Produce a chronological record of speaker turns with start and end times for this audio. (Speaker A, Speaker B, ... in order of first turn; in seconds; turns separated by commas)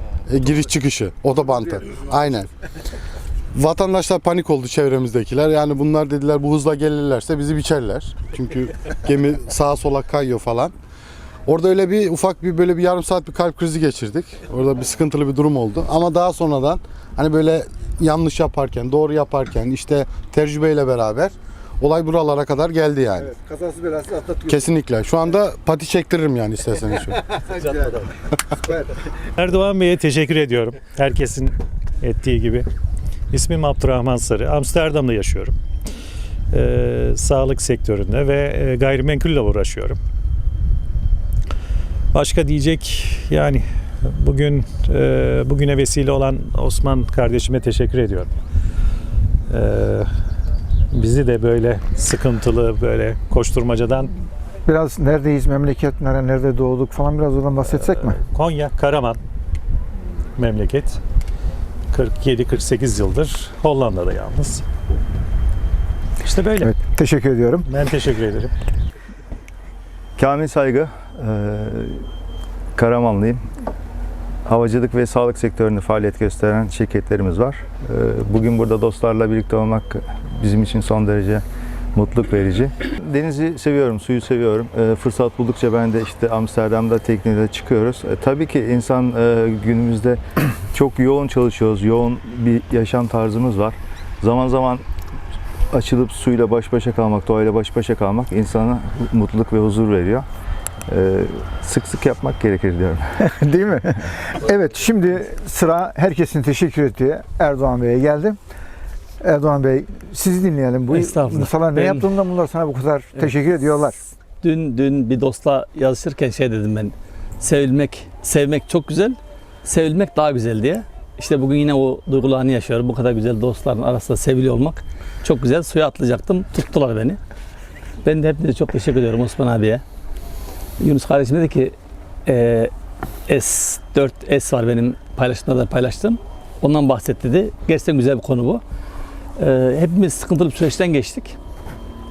Speaker A: 0.3-2.5, Speaker A: 3.5-10.7, Speaker A: 11.5-23.3, Speaker B: 23.2-24.7, Speaker A: 24.5-27.2, Speaker B: 27.5-28.0, Speaker C: 29.4-32.7, Speaker C: 33.3-35.5, Speaker C: 36.5-40.0, Speaker C: 42.1-48.3, Speaker C: 49.5-50.1, Speaker C: 50.9-54.1, Speaker B: 54.7-58.2, Speaker C: 58.1-59.2, Speaker C: 60.4-61.0, Speaker C: 61.9-64.7, Speaker C: 66.2-66.7, Speaker B: 66.6-67.7, Speaker C: 67.7-68.5, Speaker D: 70.2-72.0, Speaker D: 72.8-73.4, Speaker D: 74.5-81.4, Speaker D: 82.0-90.2, Speaker D: 90.7-94.8, Speaker D: 95.7-100.3, Speaker D: 100.9-103.2, Speaker B: 103.3-108.4, Speaker B: 109.2-114.0, Speaker E: 110.9-112.1, Speaker E: 114.4-127.2, Speaker E: 128.0-129.8, Speaker E: 130.8-132.7, Speaker E: 133.3-138.6, Speaker E: 139.4-141.4